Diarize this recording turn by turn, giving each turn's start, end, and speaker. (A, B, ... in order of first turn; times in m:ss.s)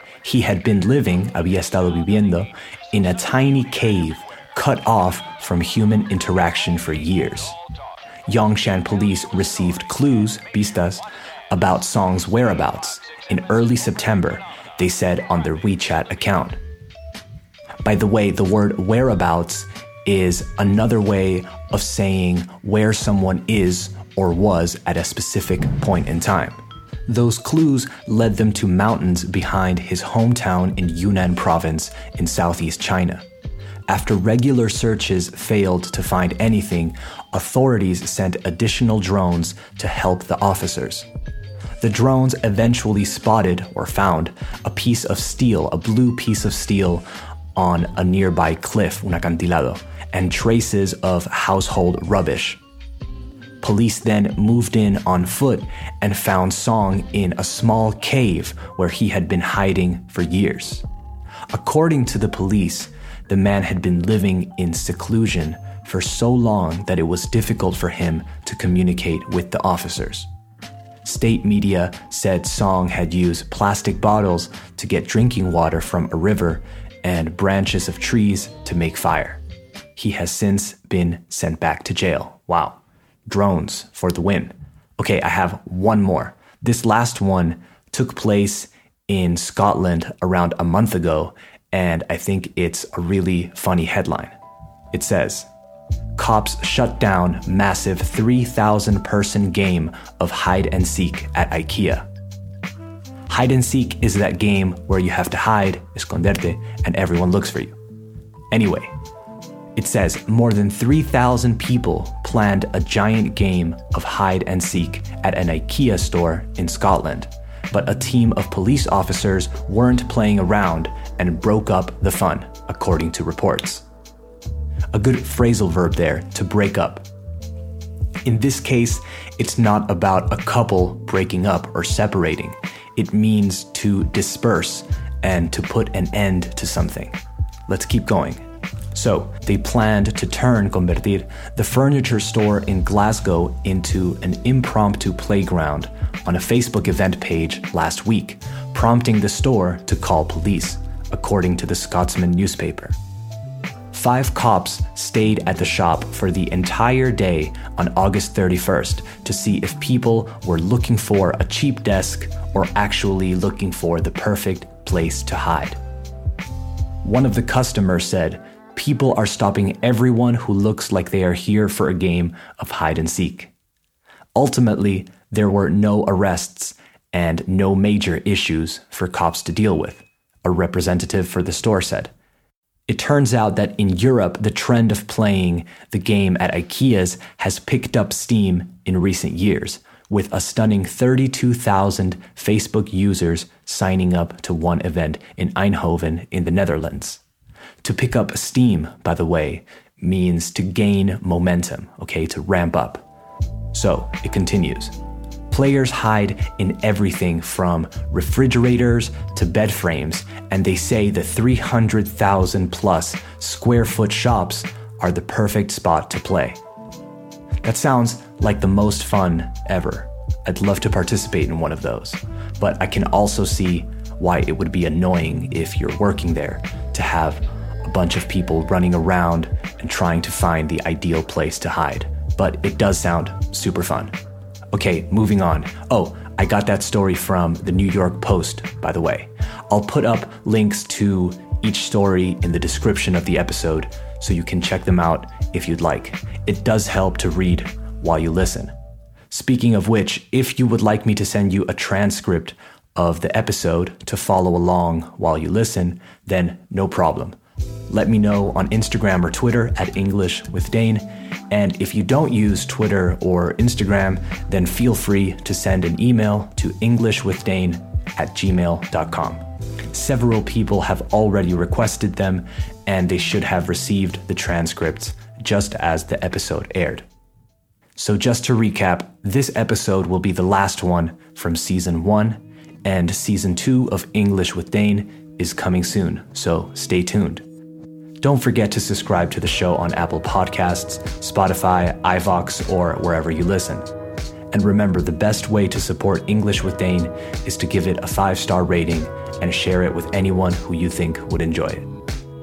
0:00.2-0:07.6 A
0:08.3-0:16.6 A
0:17.8-0:33.2 A
0:33.9-0:41.1 A
0:41.8-0:52.6 A
0:53.6-1:00.8 A
1:01.5-1:10.3 A
1:11.0-1:19.4 A
1:20.0-1:34.3 A
1:34.9-1:35.5 A
1:36.2-1:42.1 A
1:43.3-1:47.8 A
1:48.5-1:48.9 A
1:49.8-2:03.8 A
2:04.9-2:07.0 A
2:08.2-2:17.2 A
2:17.7-2:32.9 A
2:33.9-2:45.8 A
2:47.0-2:53.5 A
2:54.3-3:02.1 A
3:02.9-3:17.2 A
3:17.8-3:23.0 A
3:23.7-3:24.9 A
3:25.5-3:36.6 A
3:37.6-3:54.1 A
3:54.7-4:08.7 A
4:09.3-4:17.4 A
4:17.9-4:37.0 A
4:38.0-4:47.4 A
4:48.2-4:53.8 A
4:54.5-5:01.9 A